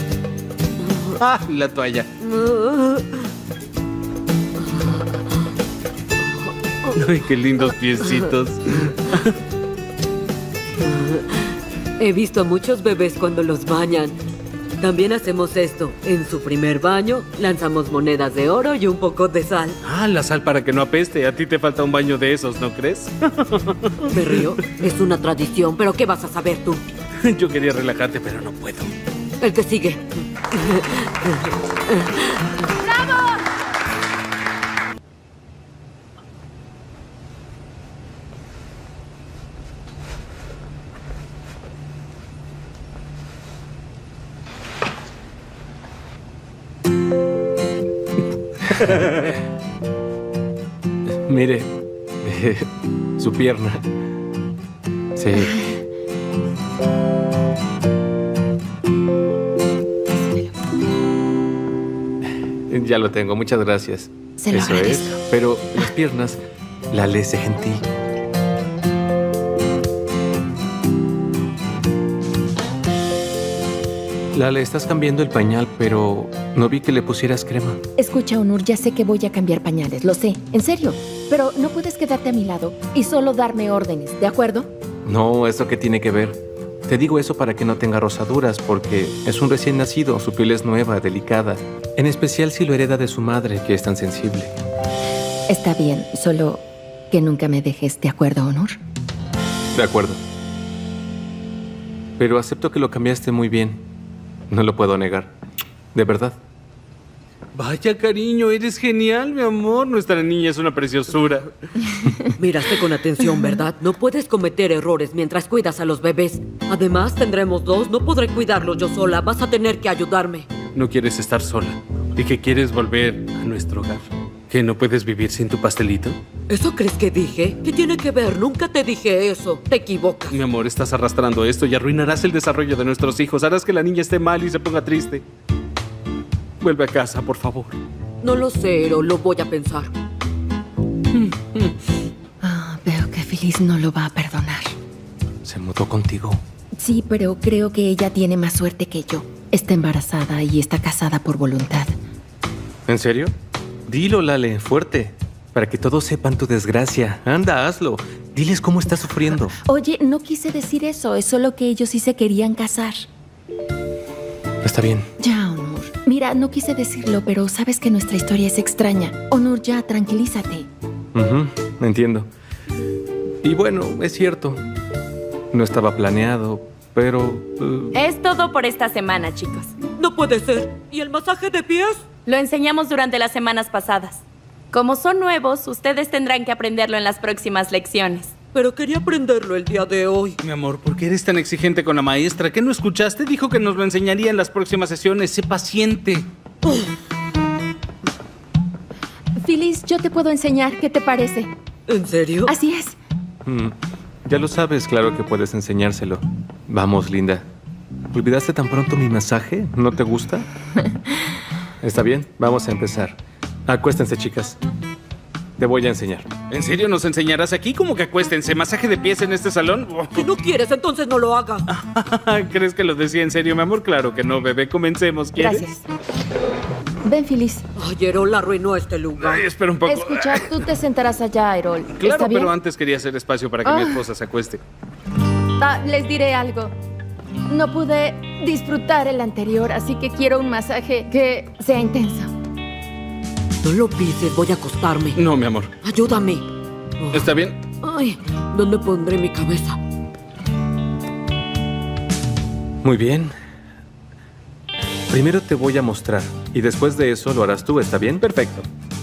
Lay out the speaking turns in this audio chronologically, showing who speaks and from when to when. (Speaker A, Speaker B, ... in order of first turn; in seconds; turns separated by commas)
Speaker A: 1.2-2.1, Speaker B: 2.2-3.2, Speaker A: 6.9-9.3, Speaker B: 10.8-14.2, Speaker B: 14.8-19.8, Speaker A: 19.8-24.5, Speaker B: 24.1-26.8, Speaker A: 27.2-28.9, Speaker B: 29.4-32.7, Speaker C: 32.8-33.4, Speaker D: 51.2-51.7, Speaker D: 52.2-53.8, Speaker D: 55.1-55.6, Speaker C: 55.3-55.8, Speaker C: 60.1-60.6, Speaker D: 62.7-66.4, Speaker C: 64.4-65.2, Speaker D: 66.9-67.8, Speaker D: 74.3-77.8, Speaker C: 78.0-84.7, Speaker D: 85.0-94.5, Speaker C: 95.5-98.8, Speaker D: 99.7-100.2, Speaker D: 102.2-103.8, Speaker D: 104.5-105.3, Speaker D: 105.9-106.4, Speaker A: 107.5-111.5, Speaker B: 112.4-120.5, Speaker A: 120.7-126.2, Speaker B: 126.5-130.4, Speaker A: 130.3-135.2, Speaker A: 136.6-137.8, Speaker B: 138.2-139.9, Speaker A: 141.1-141.7, Speaker C: 142.4-144.8, Speaker D: 145.4-146.4, Speaker C: 146.8-151.9, Speaker D: 152.9-153.3, Speaker D: 153.9-159.6, Speaker C: 159.3-163.1, Speaker D: 164.6-165.1, Speaker C: 165.2-170.7, Speaker D: 171.1-172.3, Speaker D: 173.4-174.6, Speaker D: 175.5-177.9, Speaker E: 177.9-179.7, Speaker B: 179.9-182.1, Speaker E: 182.2-188.3, Speaker B: 188.5-190.4, Speaker A: 190.4-196.2, Speaker C: 199.4-201.5, Speaker B: 201.9-202.5, Speaker C: 202.4-203.0, Speaker D: 203.4-207.5, Speaker D: 208.1-210.4, Speaker D: 211.8-214.6, Speaker D: 215.6-216.3, Speaker A: 216.5-220.2, Speaker B: 220.1-221.7, Speaker A: 221.7-225.7, Speaker C: 225.4-225.8, Speaker C: 227.0-227.6, Speaker B: 227.8-229.5, Speaker A: 229.2-230.5, Speaker C: 229.8-232.5, Speaker A: 232.0-234.6, Speaker C: 233.6-234.1, Speaker C: 235.6-236.7, Speaker C: 237.5-242.3, Speaker B: 243.6-245.2, Speaker A: 245.2-245.7, Speaker B: 245.8-246.4, Speaker B: 247.0-249.8, Speaker A: 247.1-247.6, Speaker D: 252.8-253.3, Speaker D: 255.1-258.2, Speaker A: 258.2-258.6